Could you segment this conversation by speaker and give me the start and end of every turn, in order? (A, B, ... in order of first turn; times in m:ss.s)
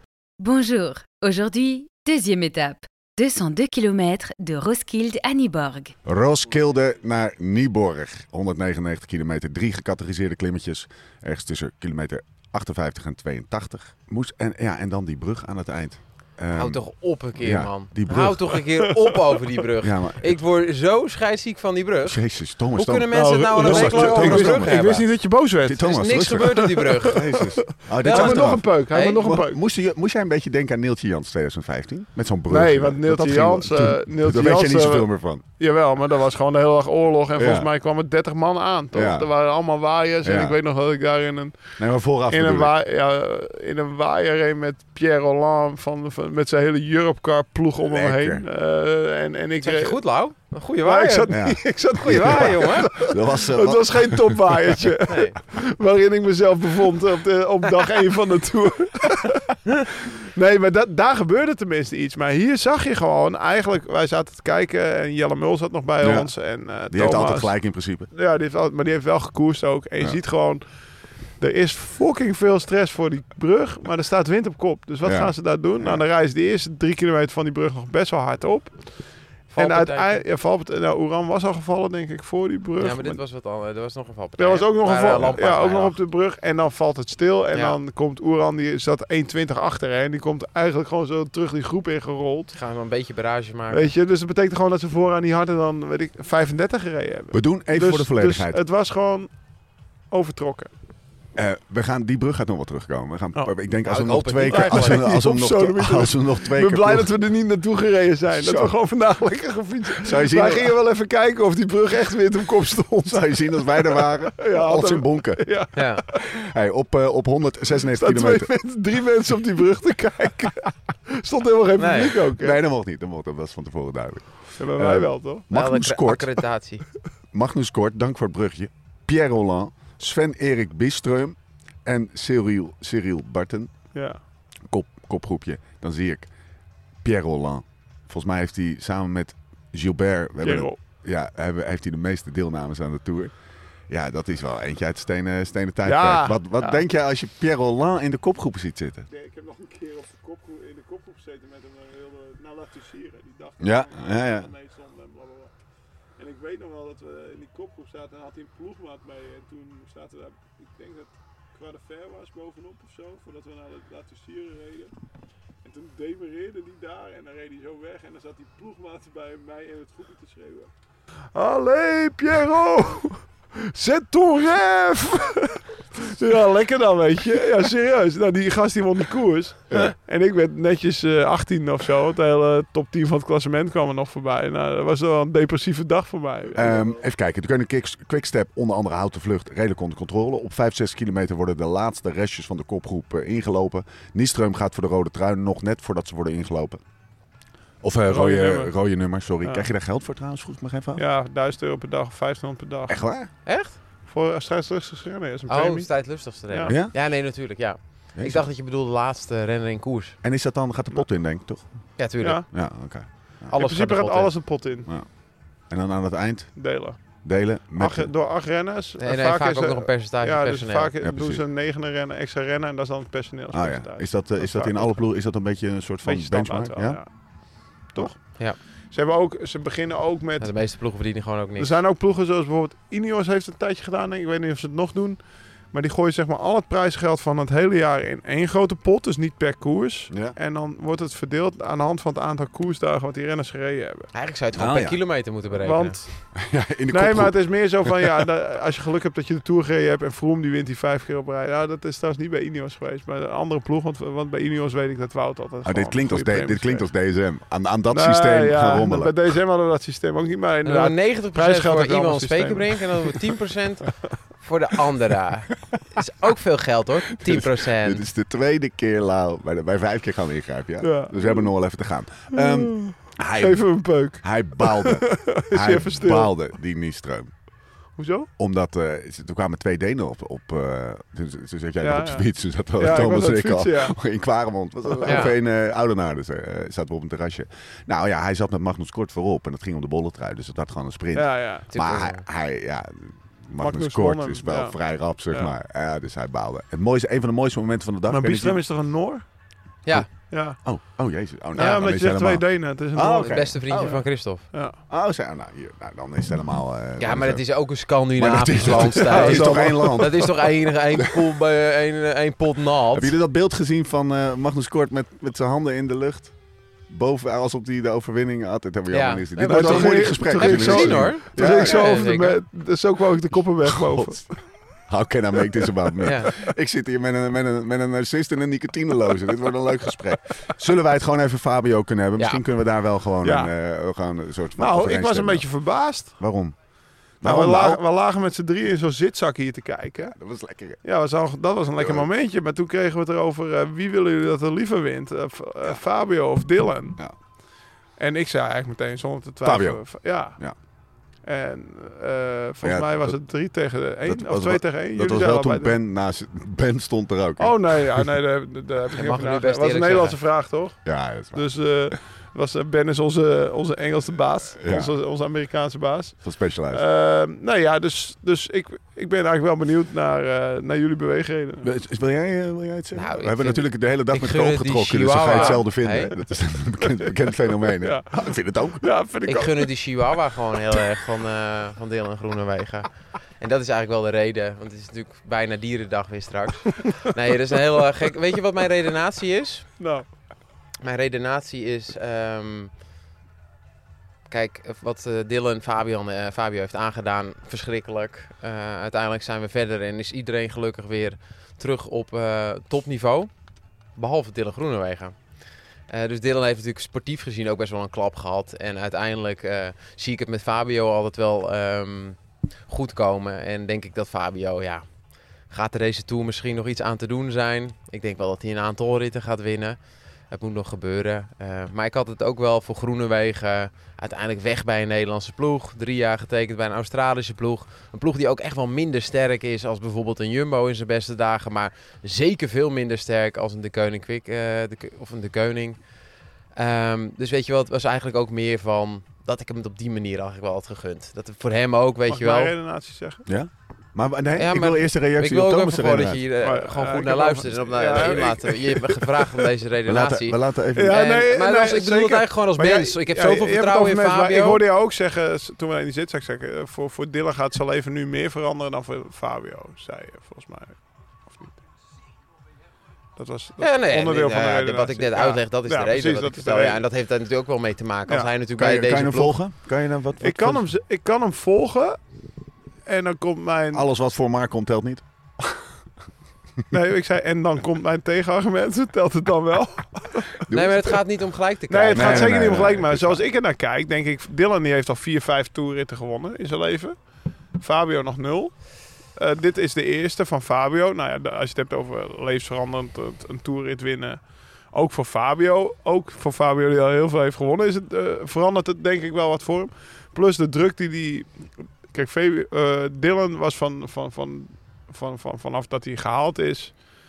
0:00.4-0:05.9 A
0:06.1-0:16.8 B
0:16.5-0:25.0 C
0:17.4-0:18.6 B
0:18.8-0:19.4 D
0:19.8-0:20.4 B
0:22.1-0:25.0 B
0:23.1-0:29.6 D
0:25.6-0:35.4 B
0:25.8-0:27.2 C
0:28.0-0:29.2 C
0:32.5-0:35.1 D
0:35.6-0:50.0 D
0:37.4-0:37.7 B
0:38.9-0:39.3 B
0:40.2-0:40.6 B
0:41.8-0:42.7 B
0:47.9-0:48.5 B
0:49.6-0:53.0 C
0:50.8-1:07.5 D
0:51.3-0:54.8 B
0:55.1-0:55.4 C
1:06.0-1:06.3 B
1:06.9-1:08.1 B
1:08.1-1:10.6 D
1:11.4-1:23.2 D
1:15.0-1:16.0 B
1:19.5-1:20.2 C
1:22.8-1:26.0 C
1:24.4-1:32.6 D
1:32.5-1:33.9 C
1:33.7-1:39.3 D
1:37.3-1:38.6 B
1:40.1-1:40.7 D
1:41.4-1:47.1 B
1:43.8-1:45.1 C
1:44.5-1:56.4 D
1:48.4-1:48.8 B
1:50.0-1:50.7 B
1:53.1-1:55.5 B
1:55.8-1:56.0 C
1:56.1-1:58.5 B
1:57.9-2:02.6 D
2:01.8-2:02.2 C
2:02.3-2:06.3 B
2:04.6-2:05.5 D
2:05.5-2:06.8 C
2:07.3-2:13.7 B
2:13.9-2:14.2 D
2:14.7-2:16.3 B
2:17.0-2:23.3 B
2:20.4-2:20.8 D
2:23.9-2:29.1 B
2:25.8-2:26.8 D
2:29.1-2:35.5 D
2:33.6-2:34.5 B
2:36.2-2:44.9 D
2:45.6-2:50.7 D
2:51.3-3:06.9 D
3:06.5-3:16.8 B
3:17.8-3:21.0 B
3:18.1-3:18.8 D
3:19.4-3:19.7 D
3:21.0-3:23.0 D
3:22.9-3:23.3 B
3:23.5-3:23.8 C
3:24.1-3:25.9 D
3:25.5-3:30.2 C
3:26.4-3:26.8 D
3:26.7-3:27.0 B
3:28.2-3:28.5 B
3:30.2-3:31.9 B
3:32.0-3:32.4 C
3:32.2-3:32.5 D
3:32.5-3:33.5 B
3:33.5-3:34.4 C
3:33.5-3:34.9 D
3:34.9-3:38.1 B
3:36.6-3:45.1 D
3:39.0-3:40.9 C
3:41.0-3:41.4 B
3:43.5-3:47.0 B
3:46.0-3:50.5 D
3:50.4-3:51.8 C
3:51.6-3:55.2 D
3:55.7-4:04.1 D
4:00.1-4:00.4 B
4:04.1-4:06.0 C
4:04.5-4:05.0 B
4:05.5-4:06.3 D
4:06.4-4:08.2 B
4:06.9-4:16.9 D
4:15.6-4:19.2 B
4:17.9-4:23.3 D
4:20.6-4:28.0 C
4:27.3-4:37.3 B
4:30.8-4:31.5 D
4:32.3-4:36.4 D
4:38.0-4:38.3 D
4:38.4-4:58.6 B
4:41.8-4:44.1 D
4:44.8-4:45.3 D
4:45.1-4:45.4 C
4:51.2-4:51.7 D
4:51.7-4:52.2 C
4:53.6-4:55.5 D
4:58.1-4:59.2 D
4:59.9-5:04.0 B
5:00.3-5:00.6 D
5:01.6-5:04.8 D
5:03.2-5:04.5 C
5:04.9-5:07.5 B
5:07.0-5:13.1 C
5:08.2-5:10.5 B
5:09.0-5:10.3 D
5:12.9-5:16.4 B
5:16.9-5:21.9 B
5:18.9-5:22.4 C
5:19.4-5:24.4 D
5:23.6-5:24.3 B
5:24.9-5:35.5 B
5:26.0-5:26.3 C
5:33.2-5:33.5 D
5:34.6-5:36.2 D
5:36.2-5:36.6 B
5:37.2-5:37.8 B
5:37.2-5:40.2 D
5:40.1-5:40.8 B
5:40.8-5:47.0 D
5:41.8-5:42.1 B
5:48.0-5:50.4 D
5:49.4-5:50.6 B
5:51.3-5:55.8 D
5:52.6-5:53.2 B
5:54.0-5:58.1 B
5:57.4-6:11.7 D
5:59.0-6:00.2 C
6:00.8-6:02.0 B
6:04.6-6:04.9 B
6:06.2-6:06.8 B
6:11.6-6:18.9 B
6:12.9-6:16.1 C
6:15.3-6:15.6 D
6:17.8-6:18.3 D
6:18.8-6:19.7 D
6:19.3-6:29.8 C
6:29.8-6:30.1 D
6:30.8-6:32.7 C
6:34.3-6:43.3 C
6:43.9-6:45.2 C
6:45.9-6:54.9 C
6:55.5-7:15.9 C
7:16.5-7:22.5 C
7:22.1-7:23.2 D
7:23.3-7:26.2 B
7:24.4-7:34.6 C
7:26.4-7:29.1 D
7:29.9-7:31.0 B
7:30.7-7:41.6 D
7:43.2-7:46.8 D
7:43.6-7:49.4 C
7:48.6-7:50.6 B
7:50.2-7:52.0 D
7:52.9-7:53.9 D
7:53.7-7:55.6 B
7:56.7-8:00.4 D
8:00.4-8:01.0 B
8:00.5-8:02.4 C
8:01.7-8:07.0 D
8:01.9-8:03.2 B
8:07.6-8:08.6 D
8:09.2-8:14.2 D
8:14.7-8:21.3 D
8:21.9-8:26.8 D